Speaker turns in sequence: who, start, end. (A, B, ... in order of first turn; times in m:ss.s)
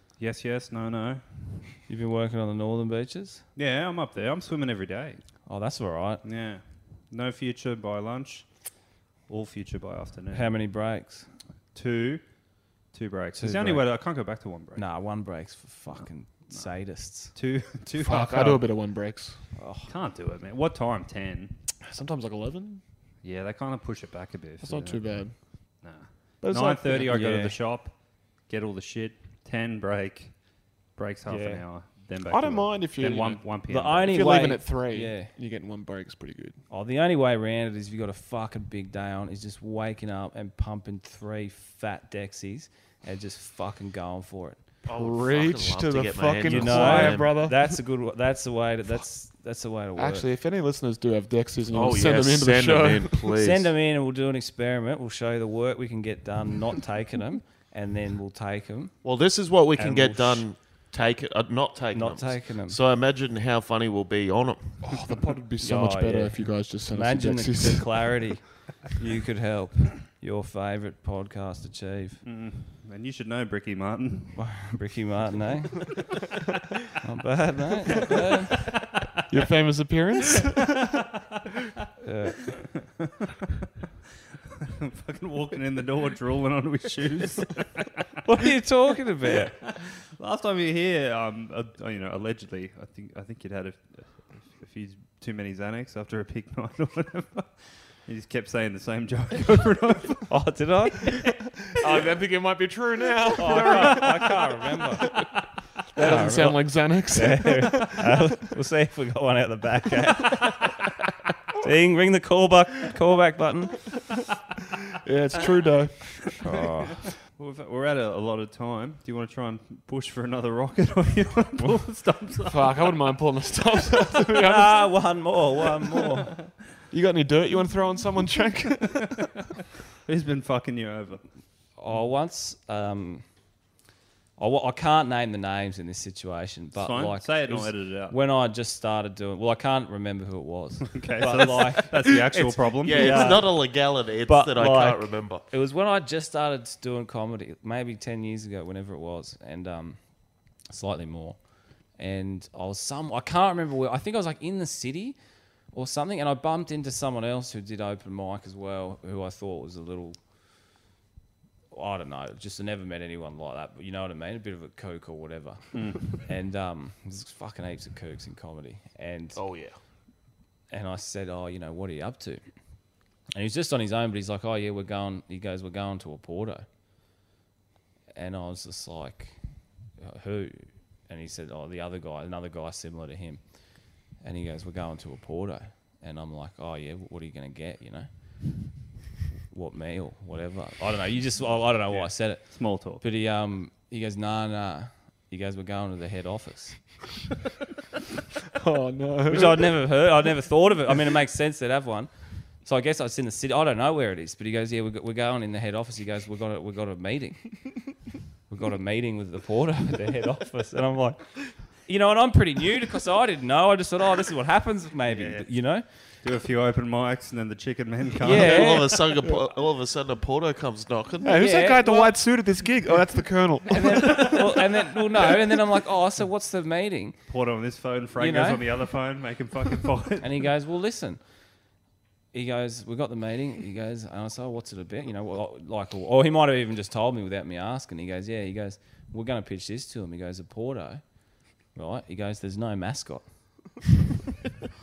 0:00.2-0:01.5 A
0:01.9-0:03.4 B
0:03.6-0:05.2 A
0:05.4-0:06.2 B
0:06.2-0:08.7 A
0:09.2-0:10.5 A
0:10.3-0:11.3 B
0:11.7-0:14.8 A
0:13.3-0:14.0 B
0:14.7-0:17.3 B
0:15.9-0:18.7 A
0:18.0-0:19.4 C
0:19.5-0:19.9 B
0:19.9-0:21.6 A
0:21.8-0:22.8 C
0:23.2-0:34.1 A
0:24.6-0:25.9 C
0:26.4-0:27.1 C
0:27.0-0:27.6 B
0:31.3-0:31.6 B
0:32.3-0:36.6 C
0:33.7-0:35.3 B
0:36.7-0:44.7 B
0:44.8-0:47.5 D
0:44.9-0:47.8 C
0:46.4-0:50.3 B
0:49.9-0:53.3 C
0:51.7-0:53.7 D
0:53.4-1:00.5 B
0:59.0-1:04.9 D
1:01.9-1:02.8 B
1:04.8-1:08.3 C
1:05.6-1:12.2 B
1:12.2-1:14.4 A
1:14.3-1:16.1 B
1:17.0-1:18.8 B
1:19.3-1:20.8 C
1:22.0-1:22.7 B
1:24.6-1:27.9 A
1:28.2-1:29.6 B
1:30.1-1:40.4 A
1:40.3-1:41.4 B
1:41.8-1:45.3 C
1:43.4-1:45.1 B
1:45.9-1:48.2 C
1:46.0-1:50.8 B
1:51.6-1:53.8 B
1:55.0-1:56.4 C
1:56.4-1:57.0 B
1:56.9-2:02.9 A
2:02.4-2:05.2 C
2:04.4-2:06.3 B
2:06.9-2:09.2 C
2:10.0-2:11.3 A
2:11.8-2:13.3 B
2:14.4-2:40.2 B
2:16.8-2:18.2 A
2:20.9-2:23.5 A
2:22.8-2:25.4 D
2:41.7-2:49.6 B
2:45.7-2:46.1 A
2:49.3-2:49.8 D
2:50.7-2:52.4 B
2:53.3-2:56.6 B
2:58.1-2:59.4 B
2:59.9-3:08.7 B
3:09.5-3:17.1 B
3:11.9-3:13.0 A
3:18.6-3:20.0 C
3:19.3-3:27.9 B
3:28.5-3:35.8 B
3:35.0-3:38.7 A
3:38.2-3:38.9 B
3:38.4-3:41.4 D
3:38.4-3:39.5 C
3:41.2-3:44.6 C
3:41.3-3:42.4 B
3:43.7-3:47.2 B
3:47.3-3:50.4 A
3:48.2-3:48.6 B
3:50.2-3:51.2 B
3:52.3-4:03.9 B